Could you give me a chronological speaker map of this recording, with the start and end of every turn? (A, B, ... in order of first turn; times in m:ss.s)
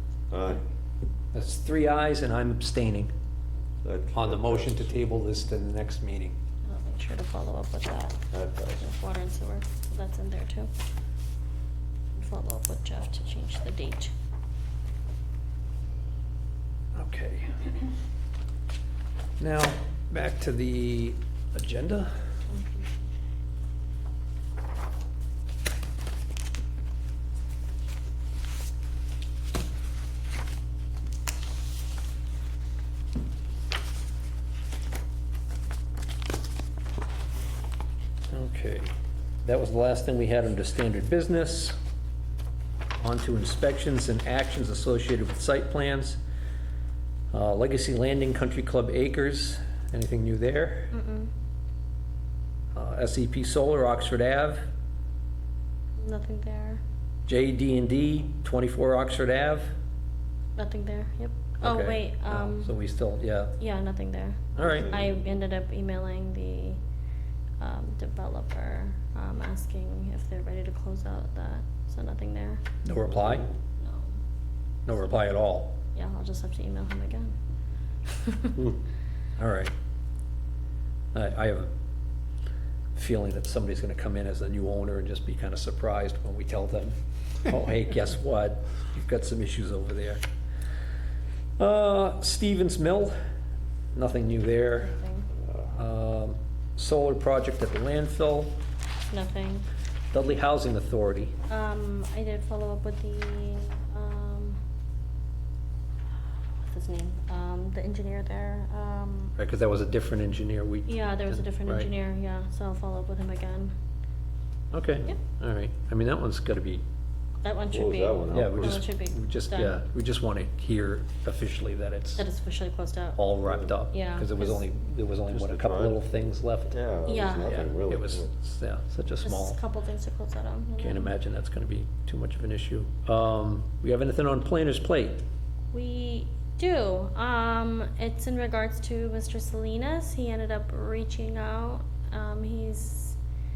0:00.3-0:00.6 A
0:01.3-0:03.1 B
0:03.8-0:04.9 A
0:04.1-0:06.4 B
0:06.6-0:08.2 C
0:08.3-0:08.8 A
0:08.8-0:10.7 C
0:12.1-0:14.1 C
0:16.9-0:17.6 B
0:19.4-0:22.1 B
0:38.3-0:38.9 B
0:39.4-0:41.8 B
0:43.0-0:46.2 B
0:47.3-0:50.9 B
0:50.9-0:51.3 C
0:52.7-0:54.6 B
0:56.0-0:56.8 C
0:57.3-0:59.7 B
1:00.6-1:02.7 C
1:01.6-1:03.6 B
1:03.6-1:06.8 C
1:04.6-1:05.0 B
1:04.6-1:05.2 A
1:07.6-1:12.6 C
1:12.8-1:13.5 B
1:13.1-1:13.5 A
1:13.8-1:14.1 C
1:14.8-1:15.8 B
1:14.9-1:15.4 C
1:15.9-1:17.3 C
1:18.1-1:18.7 C
1:19.4-1:19.7 B
1:21.1-1:21.7 B
1:22.9-1:30.2 B
1:31.6-1:33.1 B
1:33.9-1:35.0 B
1:34.8-1:35.3 C
1:35.5-1:38.5 B
1:39.1-1:39.6 C
1:40.1-1:41.3 B
1:41.5-1:44.6 C
1:46.6-1:49.3 C
1:49.4-1:51.9 B
1:50.8-1:53.7 C
1:54.7-1:56.8 B
1:57.4-1:59.8 C
1:57.7-1:58.8 A
1:58.3-2:02.2 B
2:02.2-2:03.2 C
2:03.2-2:06.8 B
2:03.4-2:03.7 A
2:03.9-2:04.6 C
2:05.3-2:06.0 A
2:06.7-2:08.3 A
2:07.0-2:07.6 C
2:07.4-2:09.6 B
2:09.2-2:11.1 C
2:10.8-2:15.2 B
2:15.7-2:23.2 C